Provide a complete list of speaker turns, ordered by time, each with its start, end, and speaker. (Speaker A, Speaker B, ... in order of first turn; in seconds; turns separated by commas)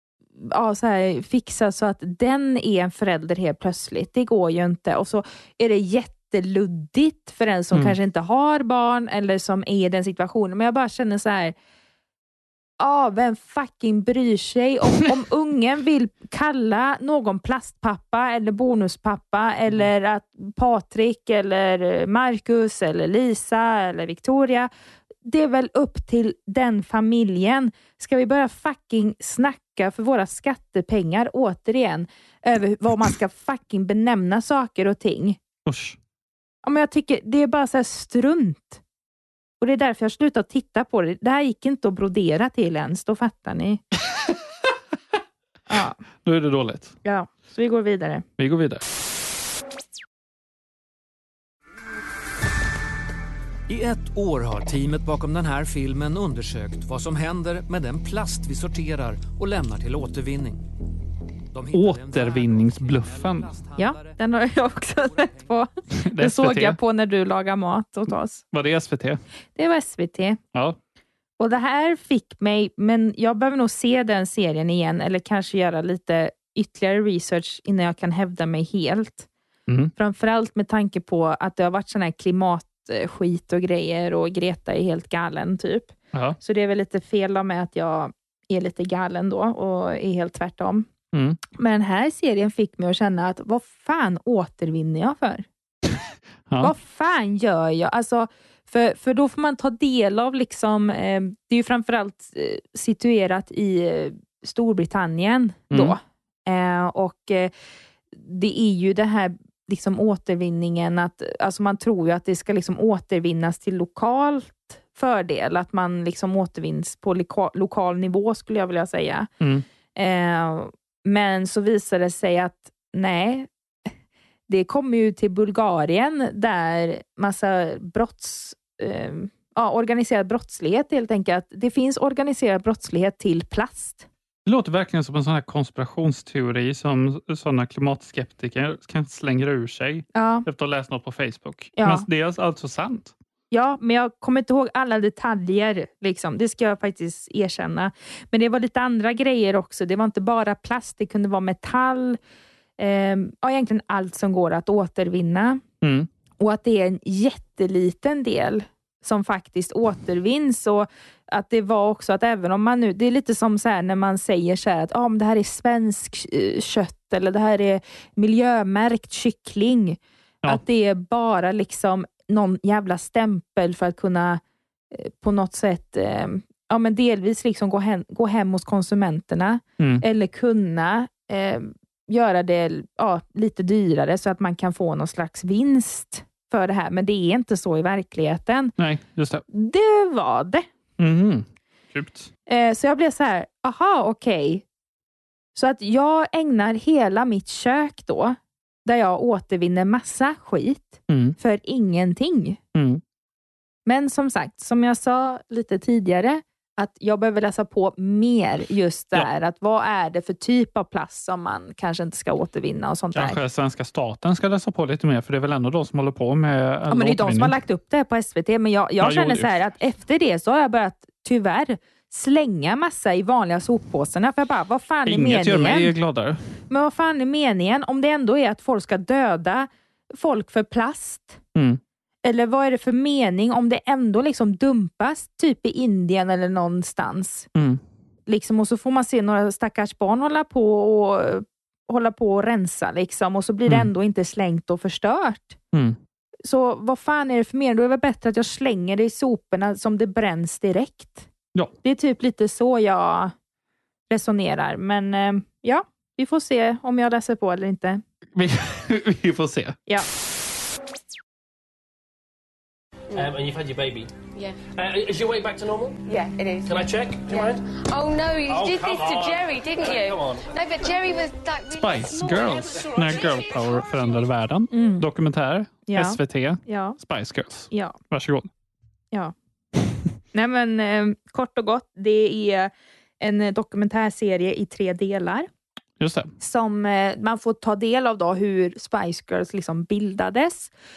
Speaker A: 0.4-11.5, Speaker A: 12.8-24.7, Speaker A: 25.2-35.4, Speaker B: 35.6-36.0, Speaker A: 36.6-38.8, Speaker A: 39.6-43.8, Speaker A: 45.7-46.0, Speaker B: 46.2-46.9, Speaker A: 47.0-48.2, Speaker B: 48.4-48.8, Speaker C: 53.7-60.6, Speaker C: 61.5-65.7, Speaker B: 61.7-63.5, Speaker A: 63.8-68.4, Speaker B: 65.9-66.8, Speaker B: 68.5-69.2, Speaker A: 69.5-70.4, Speaker A: 71.4-79.3, Speaker B: 79.7-79.9, Speaker A: 80.0-90.9, Speaker B: 86.1-86.4, Speaker B: 91.1-91.4, Speaker A: 91.5-95.5, Speaker B: 96.5-96.7, Speaker A: 96.6-107.5, Speaker B: 105.7-106.0, Speaker A: 108.1-119.3, Speaker A: 120.0-123.9, Speaker A: 124.5-134.1, Speaker B: 134.4-143.1, Speaker A: 140.1-140.4, Speaker A: 141.8-142.1, Speaker A: 143.5-152.2, Speaker A: 152.8-155.6, Speaker B: 155.8-156.1, Speaker A: 156.4-188.7, Speaker B: 179.8-180.0, Speaker B: 188.8-189.4, Speaker A: 189.5-190.6, Speaker B: 191.0-192.3, Speaker A: 192.5-194.6, Speaker A: 195.5-202.6, Speaker B: 201.1-201.3, Speaker B: 202.7-203.0, Speaker A: 203.8-213.4, Speaker B: 213.1-217.6, Speaker A: 216.9-225.9, Speaker B: 219.0-219.5, Speaker B: 225.1-226.4, Speaker A: 226.7-231.4, Speaker B: 231.5-231.8, Speaker A: 232.2-237.5, Speaker B: 237.5-237.8, Speaker A: 238.3-245.6, Speaker B: 245.7-246.0, Speaker A: 246.4-251.3, Speaker A: 251.8-253.3, Speaker A: 254.1-258.0, Speaker B: 258.3-259.8, Speaker D: 263.1-264.1, Speaker D: 264.6-266.0, Speaker E: 266.1-266.6, Speaker D: 266.6-267.6, Speaker E: 267.3-273.4, Speaker D: 268.5-270.5, Speaker B: 271.8-278.5, Speaker A: 274.7-275.0, Speaker A: 275.9-277.0, Speaker A: 277.7-277.9, Speaker A: 280.3-285.5, Speaker B: 286.0-286.3, Speaker A: 286.4-290.7